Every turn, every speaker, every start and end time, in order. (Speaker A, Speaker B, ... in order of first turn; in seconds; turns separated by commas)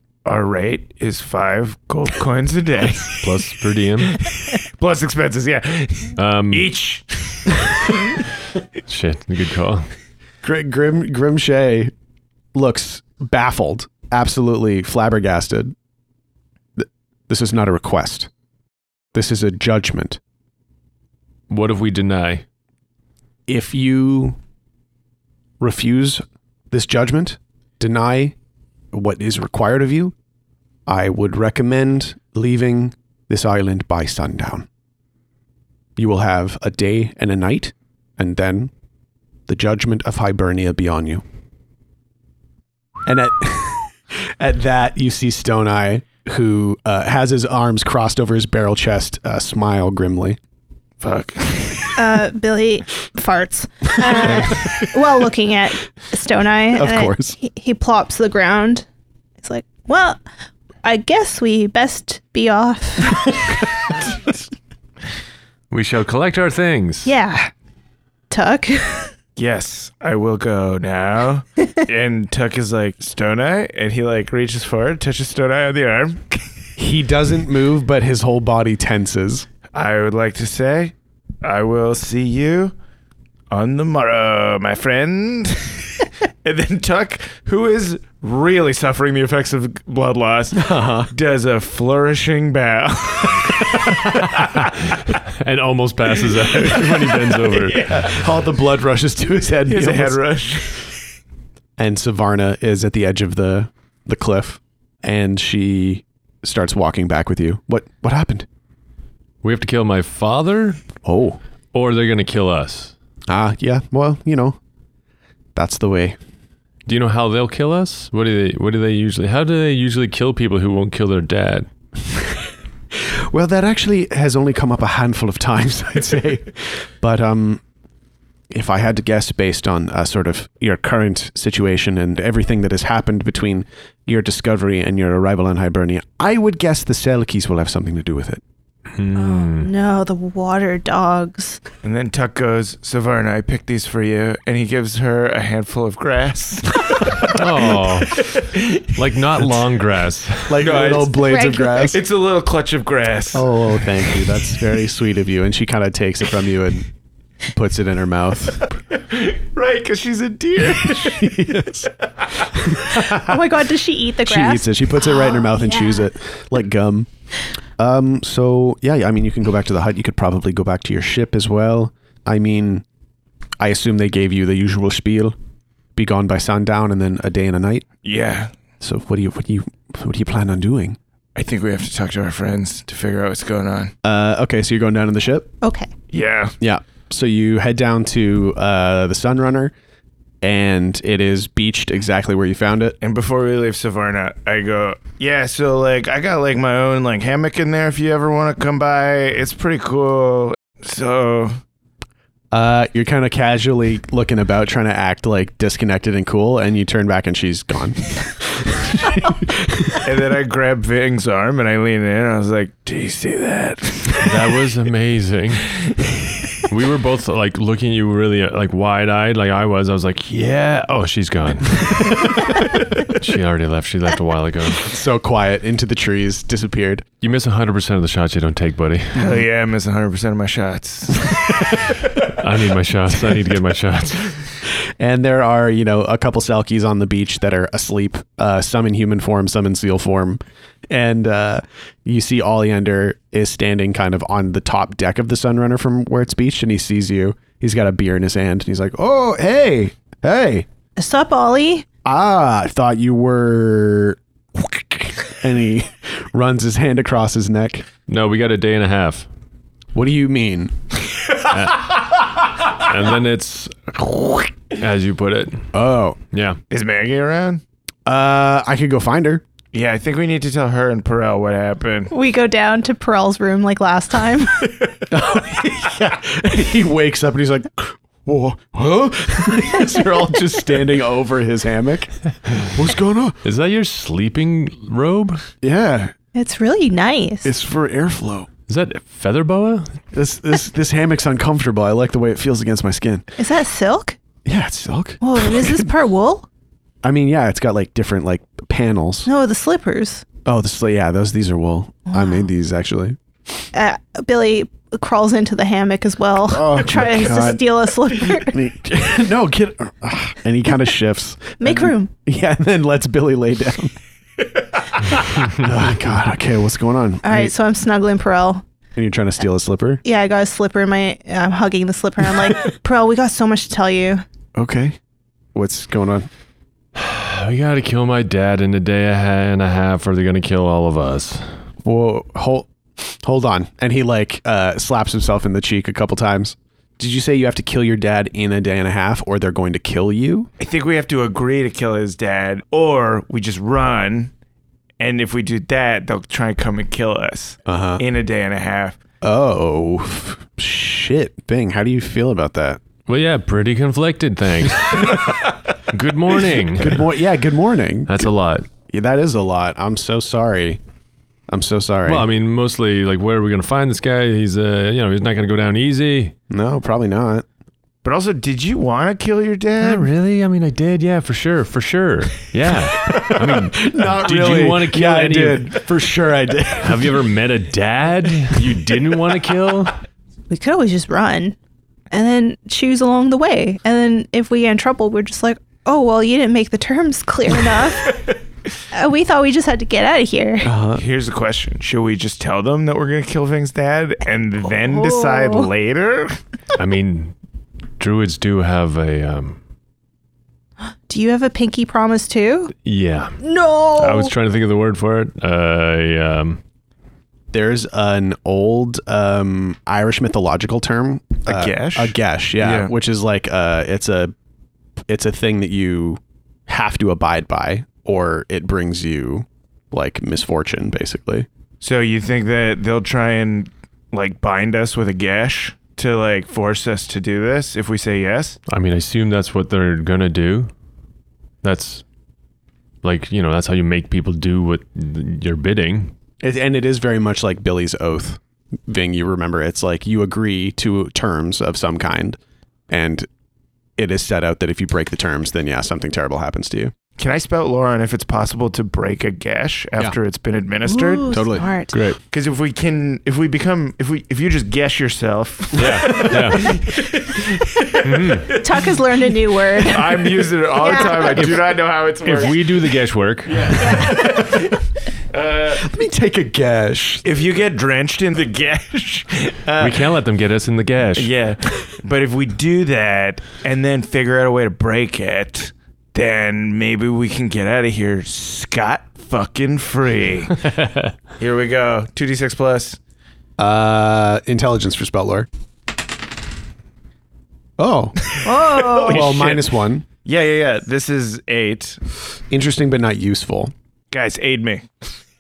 Speaker A: 0.2-3.3, Speaker B: 3.2-4.2, Speaker A: 4.3-7.9, Speaker B: 6.2-6.7, Speaker B: 8.9-9.9, Speaker C: 10.4-11.9, Speaker C: 12.5-15.7, Speaker C: 16.8-18.3, Speaker C: 19.1-20.2, Speaker B: 21.5-22.4, Speaker C: 23.5-24.4, Speaker C: 25.6-28.4, Speaker C: 28.9-30.1, Speaker C: 30.9-34.7, Speaker C: 36.0-38.7, Speaker C: 39.5-41.2, Speaker C: 43.1-50.4, Speaker A: 51.0-52.0, Speaker D: 52.0-58.9, Speaker C: 54.1-54.7, Speaker C: 56.7-57.4, Speaker D: 59.4-60.2, Speaker D: 60.8-63.6, Speaker B: 65.7-67.1, Speaker D: 67.0-67.5, Speaker D: 68.3-69.1, Speaker A: 69.4-76.4, Speaker C: 76.8-79.5, Speaker A: 79.7-82.8, Speaker A: 83.5-94.7, Speaker C: 90.5-91.1, Speaker B: 94.3-98.1, Speaker A: 96.6-98.2, Speaker C: 97.9-100.2, Speaker A: 99.7-100.9, Speaker C: 101.8-108.5, Speaker B: 109.4-110.8, Speaker C: 111.0-111.4, Speaker B: 111.7-112.9, Speaker C: 113.3-114.6, Speaker C: 115.5-116.2, Speaker B: 116.9-121.7, Speaker C: 122.9-127.6, Speaker C: 128.5-138.4, Speaker B: 138.9-139.7, Speaker D: 139.2-141.6, Speaker A: 141.8-148.9, Speaker B: 147.2-150.6, Speaker C: 150.5-152.0, Speaker A: 150.6-153.6, Speaker D: 151.1-152.0, Speaker C: 153.3-156.9, Speaker C: 157.5-158.7, Speaker A: 158.9-162.7, Speaker C: 160.8-161.9, Speaker C: 162.4-163.4, Speaker D: 162.9-166.1, Speaker C: 164.2-167.1, Speaker C: 167.8-172.8, Speaker C: 173.6-175.3, Speaker C: 175.9-177.9, Speaker A: 178.0-178.6, Speaker C: 178.8-181.0, Speaker A: 181.3-183.9, Speaker C: 184.0-185.5, Speaker D: 185.6-185.9, Speaker A: 186.1-186.6, Speaker C: 186.6-189.7, Speaker C: 190.4-193.0, Speaker A: 193.0-201.6, Speaker C: 202.5-210.1, Speaker A: 210.0-214.4, Speaker B: 214.2-215.8, Speaker B: 216.6-224.9, Speaker C: 224.7-227.1, Speaker B: 227.2-229.2, Speaker C: 229.2-229.4, Speaker A: 229.2-231.7, Speaker B: 232.2-234.4, Speaker C: 235.0-250.7, Speaker D: 251.0-251.9, Speaker C: 252.1-257.9, Speaker B: 258.1-259.3, Speaker C: 259.9-260.7, Speaker B: 261.5-265.7, Speaker C: 265.7-266.2, Speaker B: 266.3-266.6, Speaker A: 266.7-267.6, Speaker C: 268.1-269.4, Speaker A: 269.7-272.1, Speaker D: 272.1-274.7, Speaker C: 275.1-283.4, Speaker B: 283.4-285.4, Speaker C: 285.6-286.1, Speaker D: 286.3-287.5, Speaker C: 287.4-288.5, Speaker B: 288.7-290.0, Speaker C: 290.1-293.3, Speaker D: 293.4-294.2, Speaker C: 294.4-295.9, Speaker D: 295.2-296.5, Speaker C: 297.0-299.3, Speaker D: 299.3-300.3, Speaker C: 300.4-303.6, Speaker D: 303.7-308.6, Speaker C: 306.4-313.9, Speaker D: 311.6-312.1, Speaker C: 315.4-317.5, Speaker D: 317.2-318.6, Speaker C: 319.0-320.0, Speaker D: 320.0-324.2, Speaker C: 324.6-325.0, Speaker C: 325.6-326.3, Speaker B: 326.9-331.5, Speaker C: 331.8-340.5, Speaker A: 340.6-344.3, Speaker A: 345.0-349.0, Speaker C: 347.7-348.0, Speaker C: 349.2-352.8, Speaker B: 353.1-357.1, Speaker C: 356.8-358.3, Speaker B: 358.1-358.7, Speaker C: 358.9-360.8, Speaker C: 361.5-362.3, Speaker B: 362.1-366.3, Speaker C: 366.5-367.5, Speaker A: 368.0-370.1, Speaker B: 369.8-375.9, Speaker C: 373.0-377.2, Speaker B: 376.8-380.0, Speaker D: 380.5-381.6, Speaker D: 382.1-388.4, Speaker D: 388.9-390.7, Speaker C: 390.6-391.0, Speaker A: 390.9-396.4, Speaker D: 394.8-395.7, Speaker B: 396.8-397.3, Speaker B: 398.0-399.6, Speaker D: 401.1-402.7, Speaker B: 402.8-403.4, Speaker D: 403.4-404.3, Speaker B: 404.0-406.6, Speaker C: 407.5-414.3, Speaker A: 411.5-412.9, Speaker C: 415.1-421.5, Speaker A: 421.8-428.6, Speaker B: 428.7-430.7, Speaker B: 431.6-432.0, Speaker B: 433.0-436.1, Speaker C: 436.4-442.4, Speaker C: 442.9-443.3, Speaker C: 444.0-446.9, Speaker A: 447.2-451.4, Speaker D: 450.9-452.0, Speaker C: 451.3-451.7, Speaker B: 451.9-452.2, Speaker A: 452.3-458.8, Speaker B: 455.8-456.8, Speaker B: 458.0-458.5, Speaker D: 458.6-461.6, Speaker A: 459.8-462.7, Speaker B: 462.2-463.9, Speaker A: 463.5-464.7, Speaker D: 463.8-464.2, Speaker C: 464.1-464.6, Speaker A: 465.3-465.8, Speaker C: 465.7-467.2, Speaker A: 467.2-470.1, Speaker B: 469.8-471.3, Speaker A: 471.2-480.6, Speaker B: 480.8-481.1, Speaker A: 481.4-483.0, Speaker C: 483.6-485.5, Speaker C: 487.8-488.2, Speaker A: 488.3-489.7, Speaker D: 488.4-489.3, Speaker C: 489.0-490.1, Speaker A: 490.2-492.0, Speaker C: 492.5-493.7, Speaker A: 494.1-494.9